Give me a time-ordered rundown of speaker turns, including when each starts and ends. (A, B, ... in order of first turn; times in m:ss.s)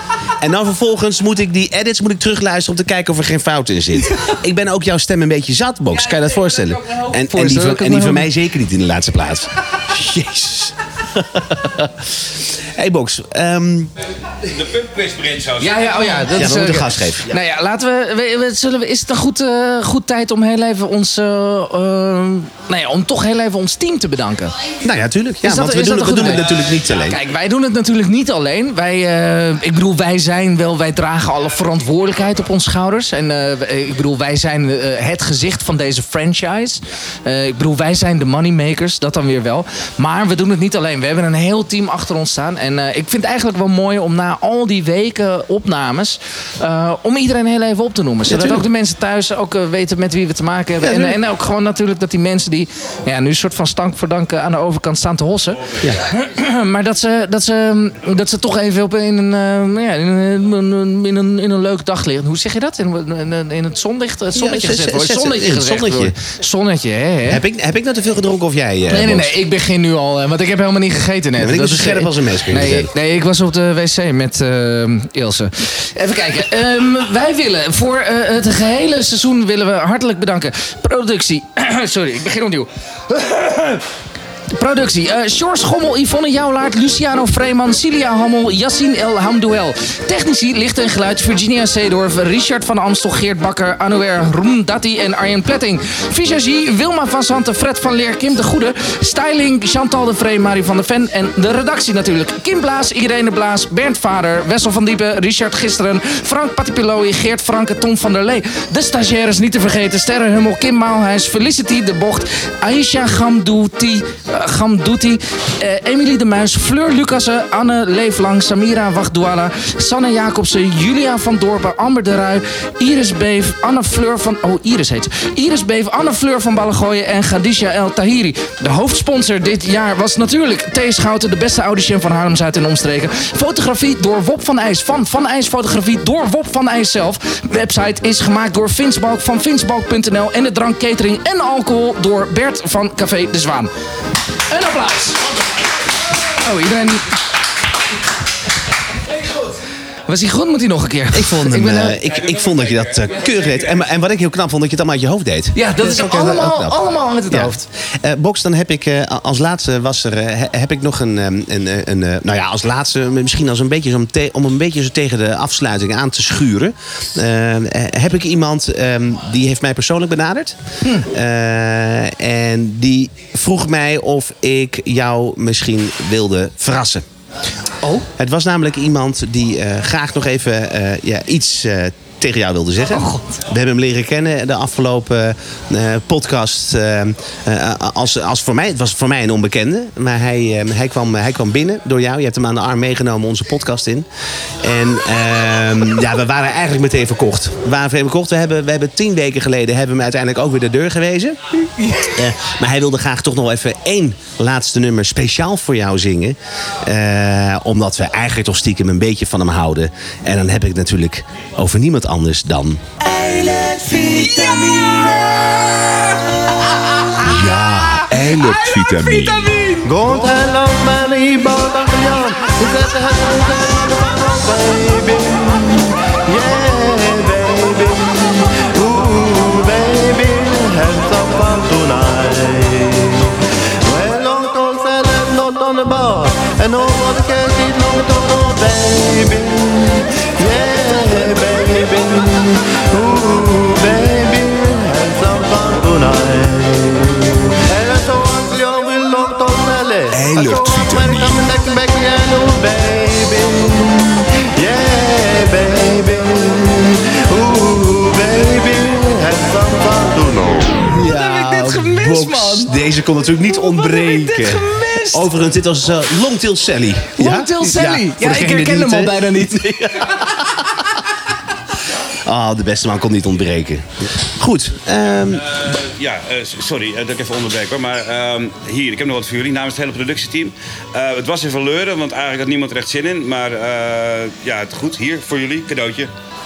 0:00.4-0:12.2 A
0:05.9-0:08.3 B
0:12.7-0:13.9 A
0:14.4-0:16.3 C
0:15.6-0:24.6 B
0:16.3-0:17.3 A
0:24.8-0:27.2 A
0:25.4-1:07.4 B
0:48.3-0:48.6 A
0:50.8-0:51.2 A
1:04.3-1:06.2 A
1:07.3-1:09.3 A
1:08.9-1:23.9 B
1:11.4-1:12.9 A
1:24.5-2:23.7 B
2:24.5-2:25.3 B
2:26.4-2:27.2 B
2:30.1-2:32.0 B
2:31.1-2:57.0 A
2:32.3-2:33.4 C
2:35.5-2:37.6 B
2:57.8-2:58.1 B
2:58.1-3:14.1 A
3:02.9-3:03.2 B
3:14.6-3:21.4 A
3:21.8-3:22.2 B
3:22.0-3:33.0 A
3:33.1-3:39.9 B
3:33.9-3:34.4 D
3:37.2-3:39.5 A
3:39.8-4:20.9 D
4:10.1-4:11.5 A
4:20.9-4:30.6 A
4:20.9-4:22.7 B
4:23.6-4:25.3 B
4:27.2-4:29.7 B
4:32.2-4:35.4 A
4:35.5-4:46.1 C